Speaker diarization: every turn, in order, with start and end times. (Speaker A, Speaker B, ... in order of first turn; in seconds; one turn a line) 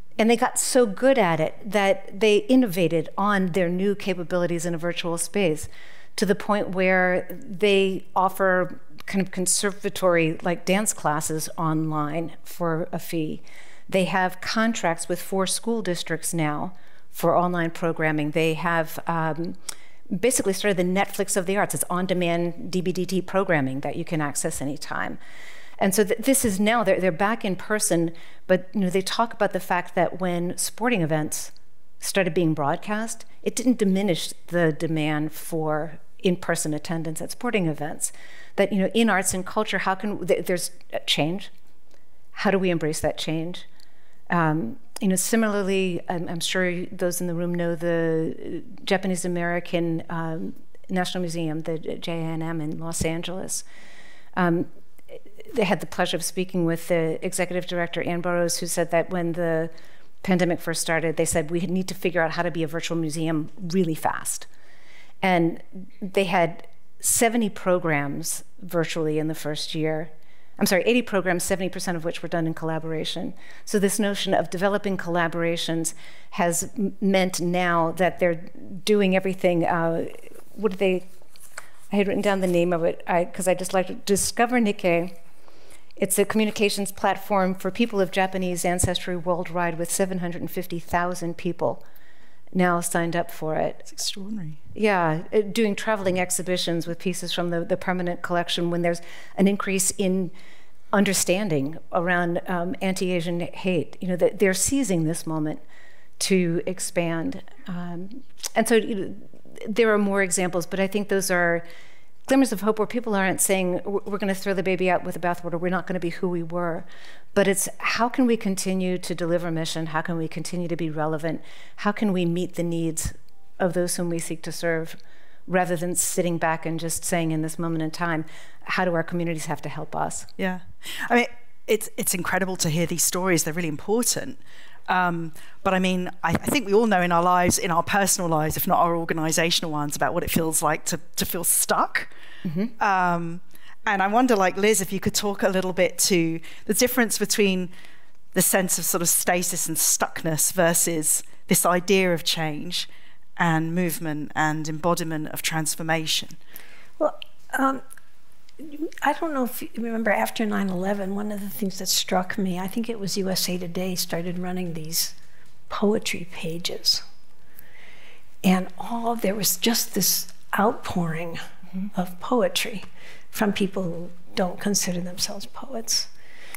Speaker A: 0.2-19.6
Speaker A: 20.1-25.2
Speaker A: 25.8-41.5
Speaker A: 42.3-43.7
Speaker A: 44.3-53.6
Speaker A: 54.4-59.7
Speaker A: 60.2-64.5
Speaker A: 65.2-81.0
Speaker A: 81.9-85.1
Speaker A: 86.0-91.8
Speaker A: 92.5-93.9
Speaker B: 93.9-94.6
Speaker A: 94.7-100.3
Speaker A: 100.9-105.6
Speaker A: 106.2-111.7
Speaker A: 112.3-130.3
Speaker B: 130.4-142.1
Speaker A: 142.4-142.7
Speaker B: 142.8-147.7
Speaker B: 148.3-156.4
Speaker C: 157.0-157.8
Speaker C: 158.6-165.1
Speaker C: 165.7-167.0
Speaker C: 168.4-171.4
Speaker C: 171.9-176.1